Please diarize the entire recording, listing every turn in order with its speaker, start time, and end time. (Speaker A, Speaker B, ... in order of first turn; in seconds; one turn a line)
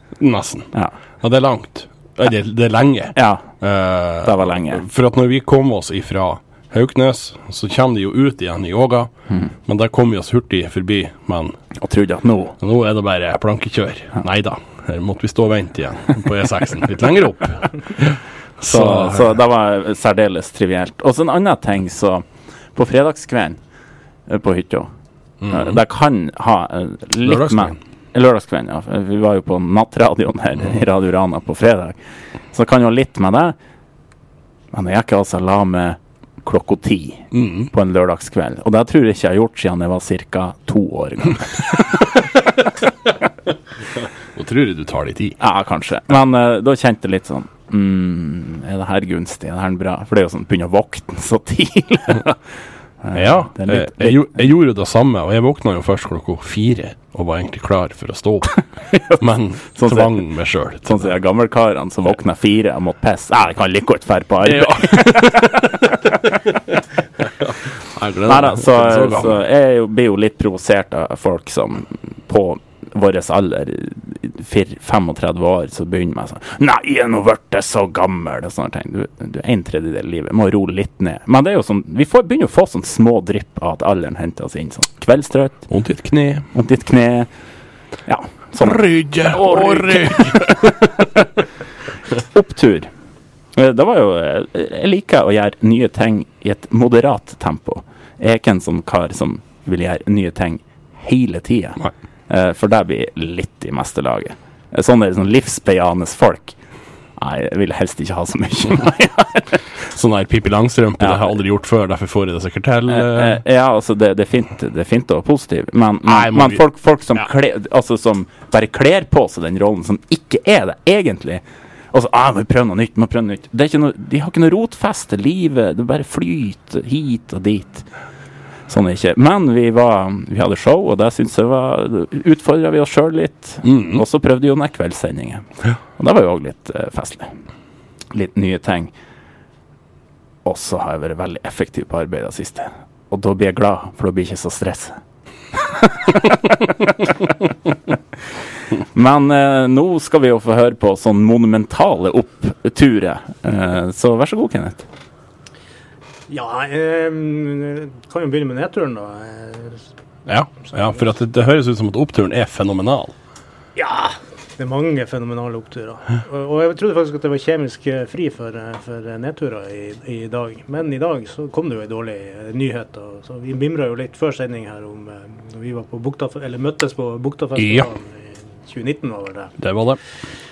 Speaker A: 0.2-0.7
Speaker A: 1.2-9.1
Speaker B: 3.1-3.5
Speaker B: 4.2-4.8
Speaker A: 9.7-11.6
Speaker B: 11.8-12.6
Speaker A: 12.6-19.4
Speaker B: 18.7-23.6
Speaker B: 24.3-24.9
Speaker A: 25.4-25.8
Speaker B: 25.5-32.0
Speaker A: 27.2-27.8
Speaker B: 32.5-33.6
Speaker B: 34.7-42.0
Speaker A: 37.3-37.7
Speaker A: 44.4-45.4
Speaker B: 45.4-52.4
Speaker B: 53.0-54.3
Speaker A: 53.1-61.1
Speaker B: 58.9-59.2
Speaker B: 59.8-60.2
Speaker B: 60.9-65.8
Speaker A: 64.4-66.2
Speaker A: 67.4-69.4
Speaker B: 68.3-85.7
Speaker A: 85.7-86.5
Speaker B: 86.5-87.3
Speaker B: 88.1-91.0
Speaker A: 88.6-90.9
Speaker B: 92.3-92.9
Speaker B: 93.5-106.6
Speaker B: 107.2-109.6
Speaker A: 109.9-113.4
Speaker B: 111.0-111.3
Speaker B: 112.9-127.9
Speaker A: 116.1-116.6
Speaker B: 128.7-137.3
Speaker A: 133.6-134.0
Speaker B: 138.1-138.9
Speaker B: 140.4-145.0
Speaker B: 145.5-147.1
Speaker B: 148.8-154.8
Speaker C: 156.3-159.9
Speaker A: 160.3-163.2
Speaker C: 163.8-179.6
Speaker A: 177.6-177.9
Speaker A: 179.6-180.0